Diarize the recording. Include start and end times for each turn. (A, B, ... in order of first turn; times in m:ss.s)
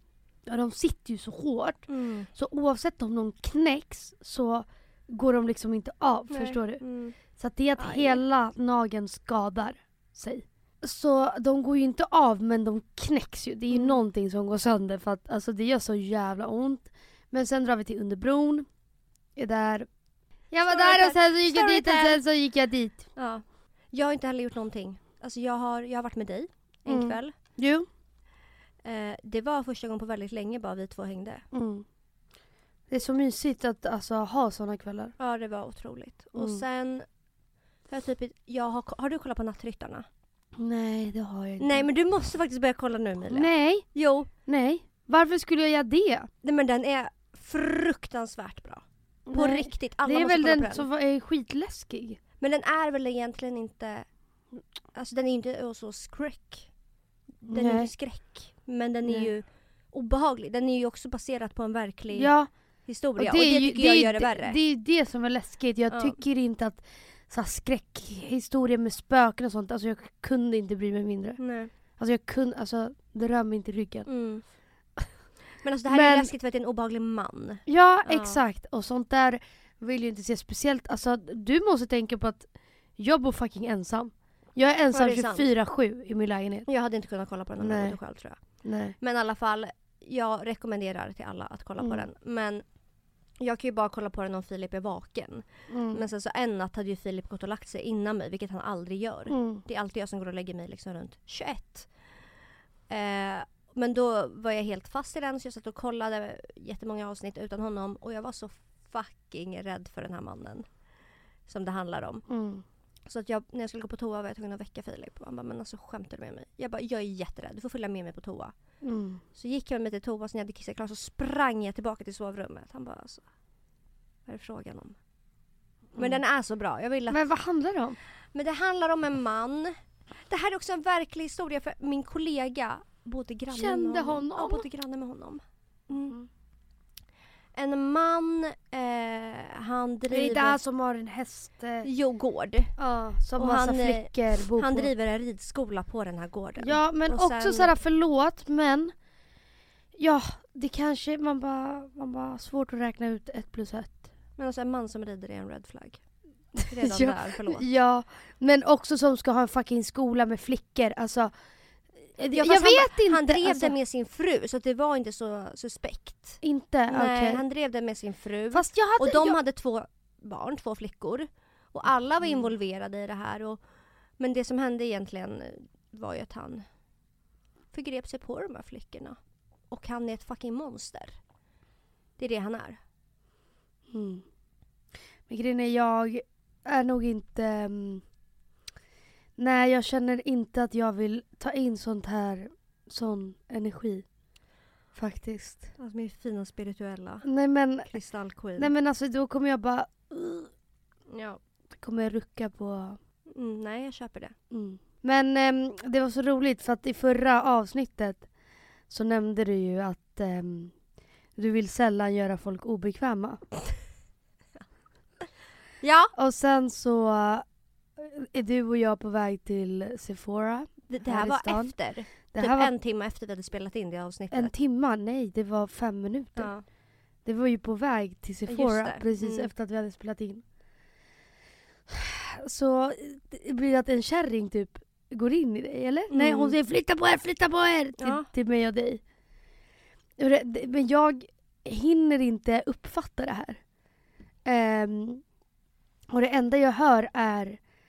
0:00.4-0:18.6 A
0:01.9-0:02.3 B
0:06.3-0:07.2 B
0:07.8-0:08.2 B
0:13.7-0:14.0 B
0:19.4-0:19.9 A
0:20.5-0:23.1 A
0:20.6-0:22.2 B
0:23.1-0:27.3 B
0:26.9-0:27.8 A
0:28.8-0:31.4 B
0:31.5-0:31.8 A
0:32.9-0:35.1 A
0:35.2-0:37.1 B
0:36.3-0:36.6 A
0:37.9-0:40.1 B
0:40.6-0:41.9 A
0:41.6-0:44.3 B
0:43.3-0:46.3 A
0:46.4-0:50.9 B
0:49.3-0:52.2 A
0:52.4-0:54.1 B
0:54.9-0:56.7 B
0:57.4-1:04.6 B
0:57.5-0:57.9 A
1:02.1-1:02.5 A
1:03.2-1:14.1 A
1:05.9-1:06.2 B
1:11.4-1:11.7 B
1:14.0-1:14.5 B
1:15.6-1:18.4 B
1:15.9-1:16.3 A
1:17.7-1:26.7 A
1:24.9-1:25.5 B
1:26.7-1:32.6 B
1:27.6-1:28.9 A
1:31.8-1:32.0 A
1:33.4-1:41.9 B
1:35.7-1:36.0 A
1:39.3-1:39.6 A
1:42.9-1:50.7 B
1:51.5-1:52.2 B
1:52.3-1:52.6 A
1:53.0-1:58.5 B
1:58.8-1:59.2 A
1:59.3-2:03.2 B
2:04.2-2:05.0 B
2:05.9-2:06.2 A
2:06.0-2:07.2 B
2:07.1-2:08.0 A
2:08.3-2:16.2 B
2:13.5-2:14.6 A
2:17.5-2:20.6 B
2:20.1-2:21.9 A
2:21.8-2:22.7 B
2:22.8-2:24.9 A
2:23.4-2:27.7 B
2:26.6-2:28.9 A
2:30.0-2:34.0 A
2:34.4-2:36.0 B
2:36.6-2:41.3 A
2:36.6-2:37.7 B
2:42.1-2:43.7 A
2:42.3-2:53.6 B
2:46.4-2:47.4 A
2:48.5-2:49.4 A
2:54.2-2:56.6 B
2:57.7-2:59.2 B
2:59.7-3:01.2 B
3:02.2-3:02.8 B
3:03.9-3:04.2 A
3:05.3-3:08.0 A
3:09.4-3:14.0 A
3:14.9-3:15.7 A
3:15.8-3:18.7 B
3:17.2-3:17.9 A
3:18.6-3:20.5 A
3:21.1-3:21.4 B
3:21.8-3:23.0 A
3:23.3-3:24.4 B
3:24.5-3:28.3 A
3:28.9-3:30.8 A
3:31.4-3:33.4 A
3:35.8-3:36.1 B
3:36.1-3:37.4 A
3:38.0-3:42.7 A
3:40.9-3:44.5 B
3:44.3-3:46.6 A
3:46.3-3:46.6 B
3:47.2-3:50.4 A
3:48.5-3:49.5 B
3:52.0-3:59.0 A
3:56.1-3:56.5 B
3:58.0-3:58.3 B
4:00.2-4:03.6 A
4:04.4-4:05.2 A
4:06.1-4:07.6 A